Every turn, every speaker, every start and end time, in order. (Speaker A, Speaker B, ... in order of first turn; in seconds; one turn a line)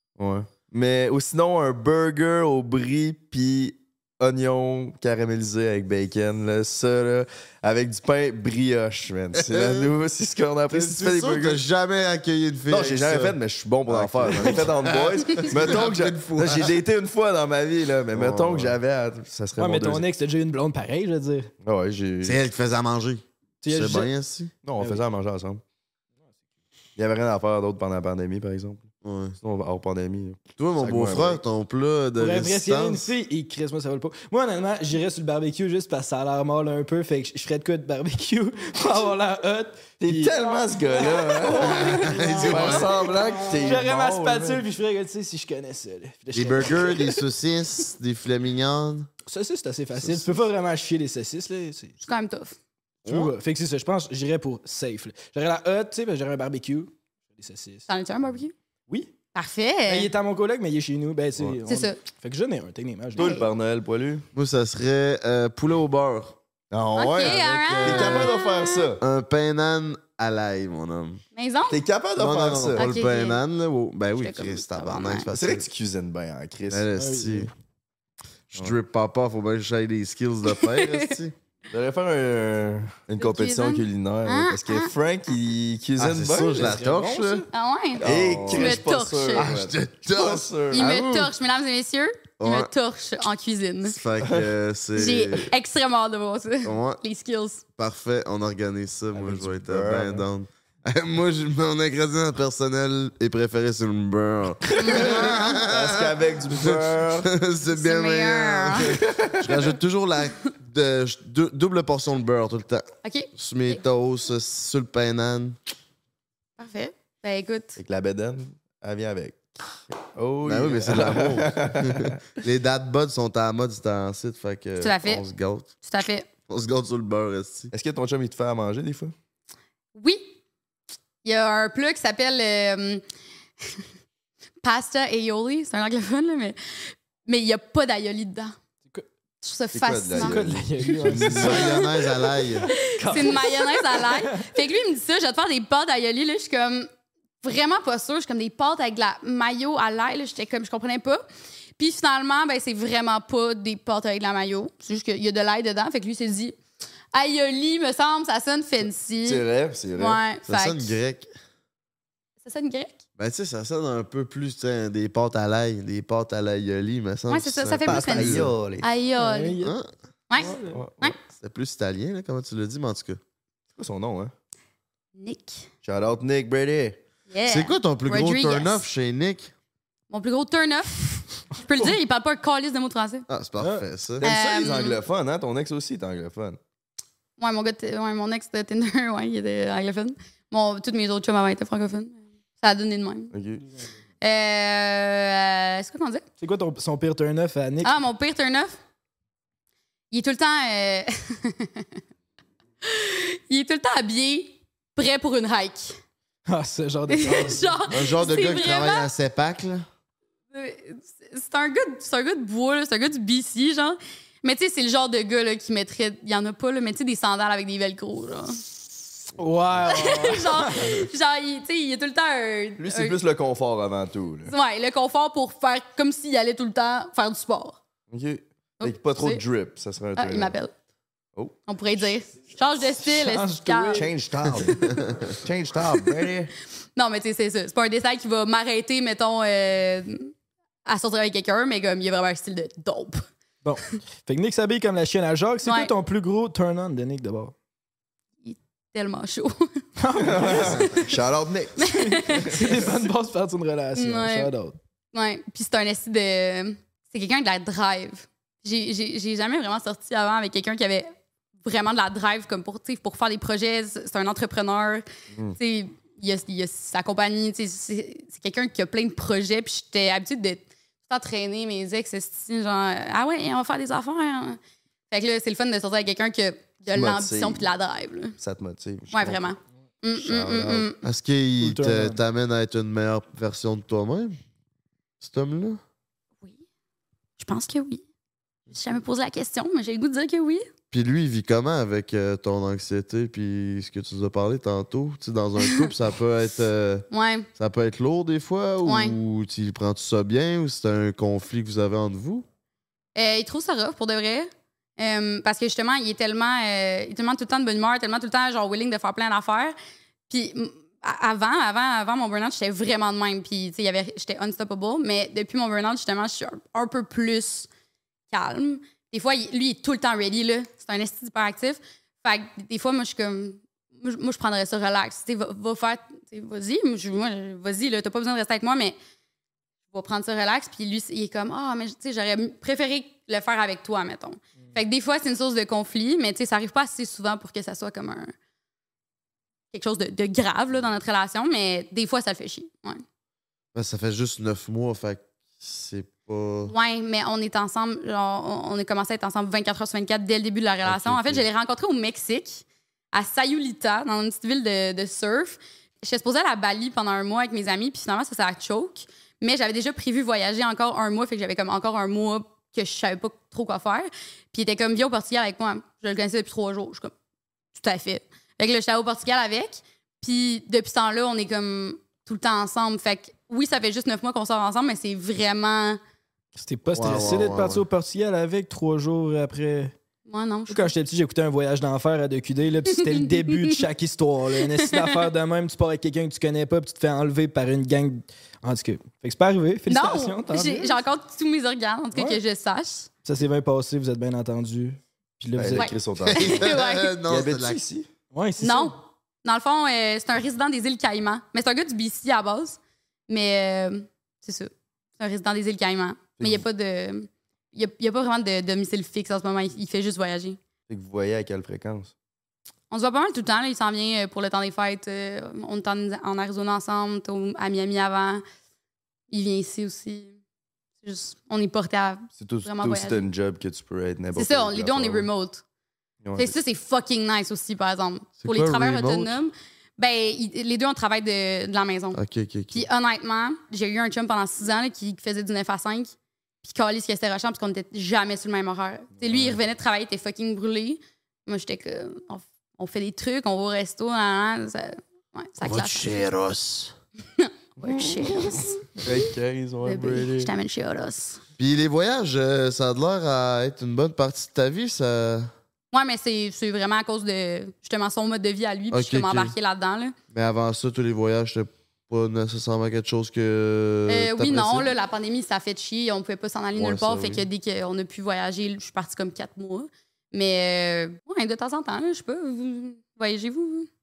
Speaker A: 0.2-11.6
Speaker B: 9.3-9.9
Speaker B: 10.7-13.3
Speaker A: 12.7-20.0
Speaker B: 13.9-16.7
Speaker C: 14.3-14.7
Speaker B: 18.1-18.8
Speaker C: 19.6-21.5
Speaker A: 21.6-22.4
Speaker B: 22.2-24.5
Speaker C: 23.6-24.1
Speaker A: 24.6-25.6
Speaker A: 27.0-28.9
Speaker B: 29.0-29.4
Speaker A: 29.4-31.4
Speaker B: 30.6-33.1
Speaker C: 32.2-40.4
Speaker A: 40.0-44.6
Speaker C: 41.0-47.2
Speaker B: 41.6-43.0
Speaker B: 46.3-49.1
Speaker C: 49.3-52.0
Speaker B: 50.0-50.3
Speaker D: 52.0-52.6
Speaker B: 53.0-53.3
Speaker C: 53.0-57.9
Speaker D: 57.9-58.5
Speaker D: 59.3-60.1
Speaker C: 59.9-63.4
Speaker D: 61.7-62.0
Speaker D: 63.1-63.5
Speaker A: 63.1-64.2
Speaker B: 64.3-66.4
Speaker A: 66.7-69.0
Speaker D: 66.9-68.9
Speaker B: 67.2-68.3
Speaker B: 69.0-71.2
Speaker D: 71.3-71.8
Speaker A: 71.7-72.8
Speaker B: 72.2-75.7
Speaker D: 72.8-73.4
Speaker D: 74.2-75.3
Speaker A: 75.3-76.9
Speaker B: 76.7-77.5
Speaker C: 77.0-77.5
Speaker B: 78.5-81.3
Speaker D: 80.5-81.1
Speaker A: 81.7-86.8
Speaker D: 83.2-84.9
Speaker B: 86.0-87.5
Speaker C: 86.5-87.5
Speaker D: 87.5-89.5
Speaker A: 88.0-91.1
Speaker B: 88.0-88.8
Speaker B: 89.3-91.2
Speaker D: 90.7-94.0
Speaker B: 92.4-92.7
Speaker B: 93.8-95.5
Speaker A: 94.2-94.5
Speaker D: 94.9-97.6
Speaker B: 96.6-97.0
Speaker B: 97.8-115.6
Speaker A: 99.1-100.2
Speaker A: 104.7-107.3
Speaker D: 104.8-105.5
Speaker D: 107.7-109.0
Speaker A: 108.8-109.7
Speaker D: 113.0-113.3
Speaker D: 116.6-117.8
Speaker A: 117.8-119.4
Speaker A: 120.0-122.2
Speaker B: 120.4-125.7
Speaker D: 124.8-125.2
Speaker D: 125.8-126.3
Speaker B: 126.5-127.7
Speaker A: 127.7-129.1
Speaker D: 129.9-130.4
Speaker D: 131.2-133.0
Speaker D: 134.6-138.5
Speaker D: 139.4-140.4
Speaker A: 139.7-141.6
Speaker C: 140.2-144.4
Speaker B: 141.1-142.7
Speaker D: 141.4-141.9
Speaker D: 142.7-146.9
Speaker D: 147.4-151.2
Speaker D: 151.8-156.6
Speaker D: 157.1-159.4
Speaker A: 159.2-160.2
Speaker D: 159.9-161.0
Speaker B: 160.4-161.3
Speaker D: 162.4-163.0
Speaker B: 163.2-168.5
Speaker D: 167.3-169.6
Speaker A: 167.8-168.9
Speaker C: 169.2-169.8
Speaker B: 169.6-169.9
Speaker D: 170.3-171.2
Speaker C: 170.3-170.8
Speaker A: 170.7-171.1
Speaker B: 171.4-173.2
Speaker A: 173.7-174.3
Speaker D: 175.2-175.7
Speaker A: 175.8-177.0
Speaker D: 177.3-178.8
Speaker B: 177.4-179.5
Speaker D: 180.1-183.2
Speaker B: 183.3-184.2
Speaker C: 183.6-183.8
Speaker A: 184.2-186.6
Speaker D: 184.2-185.0
Speaker D: 187.4-193.3
Speaker A: 193.3-193.6
Speaker D: 194.2-196.2
Speaker C: 196.4-197.9
Speaker D: 197.8-198.8
Speaker D: 200.1-201.9
Speaker D: 202.8-206.0
Speaker C: 206.5-207.8
Speaker D: 207.1-209.1
Speaker B: 207.9-209.8
Speaker D: 210.5-218.6
Speaker C: 219.4-221.0
Speaker D: 219.9-223.2
Speaker A: 222.8-224.5
Speaker D: 224.5-227.8
Speaker A: 228.1-230.5
Speaker D: 228.8-229.4
Speaker D: 230.2-230.7
Speaker D: 231.7-234.1
Speaker C: 233.0-234.8
Speaker A: 233.9-234.9
Speaker A: 235.4-236.5
Speaker D: 236.9-240.3
Speaker D: 240.8-243.2
Speaker C: 243.6-247.5
Speaker D: 245.6-245.9
Speaker D: 248.4-249.8
Speaker C: 250.0-251.1
Speaker A: 250.2-252.9
Speaker D: 251.8-252.7
Speaker C: 252.3-254.8
Speaker D: 253.9-254.5
Speaker D: 255.1-274.6
Speaker D: 275.1-278.3
Speaker A: 276.9-277.7
Speaker A: 278.4-279.4
Speaker D: 279.1-281.0
Speaker A: 280.1-280.9
Speaker B: 281.0-284.4
Speaker C: 281.6-282.2
Speaker B: 285.2-285.8
Speaker D: 287.4-288.0
Speaker D: 288.7-290.6
Speaker B: 290.9-302.4
Speaker D: 295.6-295.9
Speaker D: 297.1-297.5
Speaker D: 298.8-299.2
Speaker D: 303.1-309.8
Speaker D: 310.3-317.7
Speaker D: 318.3-328.9
Speaker D: 329.9-338.3
Speaker D: 339.7-343.0
Speaker B: 343.7-346.7
Speaker D: 346.6-367.1
Speaker B: 350.8-351.4
Speaker D: 367.7-376.0
Speaker C: 376.6-379.9
Speaker B: 376.9-377.8
Speaker D: 380.3-380.9
Speaker C: 380.7-391.0
Speaker D: 382.9-383.8
Speaker D: 384.7-385.2
Speaker D: 389.9-393.1
Speaker C: 392.1-392.4
Speaker C: 393.2-395.9
Speaker A: 395.6-396.6
Speaker D: 395.7-397.1
Speaker B: 396.3-397.8
Speaker A: 397.3-398.1
Speaker C: 398.3-398.9
Speaker D: 398.6-410.6
Speaker A: 406.4-406.6
Speaker A: 410.9-412.1
Speaker D: 412.9-418.4
Speaker D: 419.3-420.4
Speaker D: 421.0-423.2
Speaker A: 422.4-425.3
Speaker D: 424.3-425.6
Speaker A: 426.2-426.6
Speaker D: 426.4-432.2
Speaker B: 428.4-429.4
Speaker B: 432.1-432.9
Speaker D: 432.7-446.2
Speaker B: 445.6-446.9
Speaker D: 447.4-449.3
Speaker A: 447.8-450.5
Speaker D: 449.8-451.4
Speaker B: 451.6-455.5
Speaker D: 455.9-460.1
Speaker B: 458.9-459.5
Speaker B: 460.3-464.9
Speaker D: 464.1-473.9
Speaker B: 466.8-467.4